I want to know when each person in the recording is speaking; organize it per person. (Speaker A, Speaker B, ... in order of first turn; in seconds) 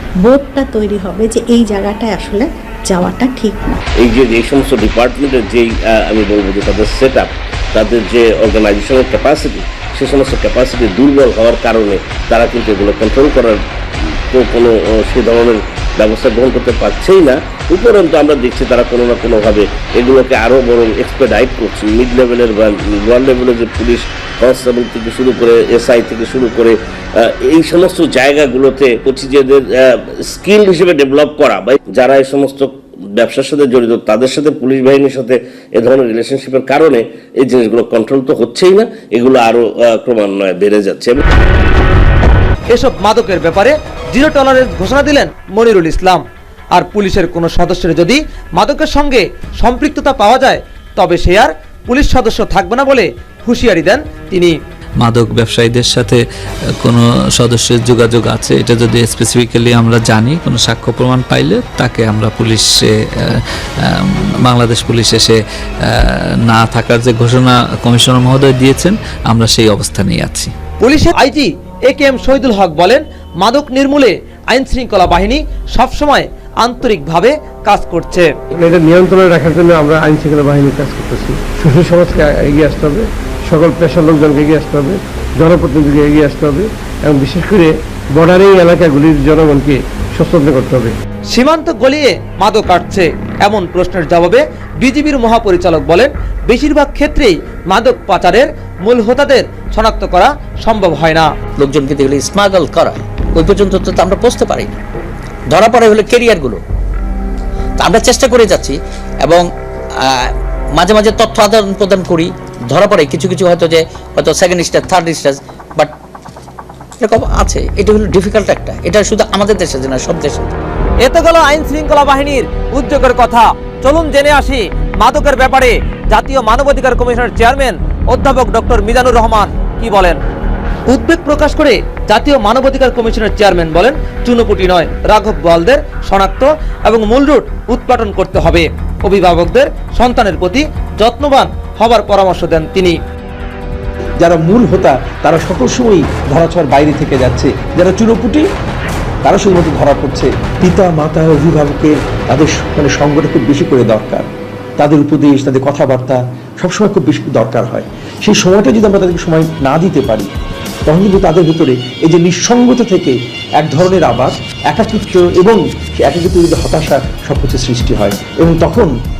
Speaker A: 0.2-3.8
Speaker B: 4.0-13.6, 14.3-41.2
Speaker C: 42.7-46.2, 46.7-54.5, 70.8-78.3, 91.3-101.3, 121.0-130.2, 130.9-143.0
Speaker D: 55.0-56.2, 56.8-63.4, 64.4-65.4, 66.5-70.5
Speaker E: 78.6-90.9
Speaker F: 101.6-104.7, 105.5-106.6, 107.8-109.4, 110.0-115.9, 117.0-120.5
Speaker G: 144.2-148.4, 149.2-154.3, 154.8-160.3, 160.9-168.9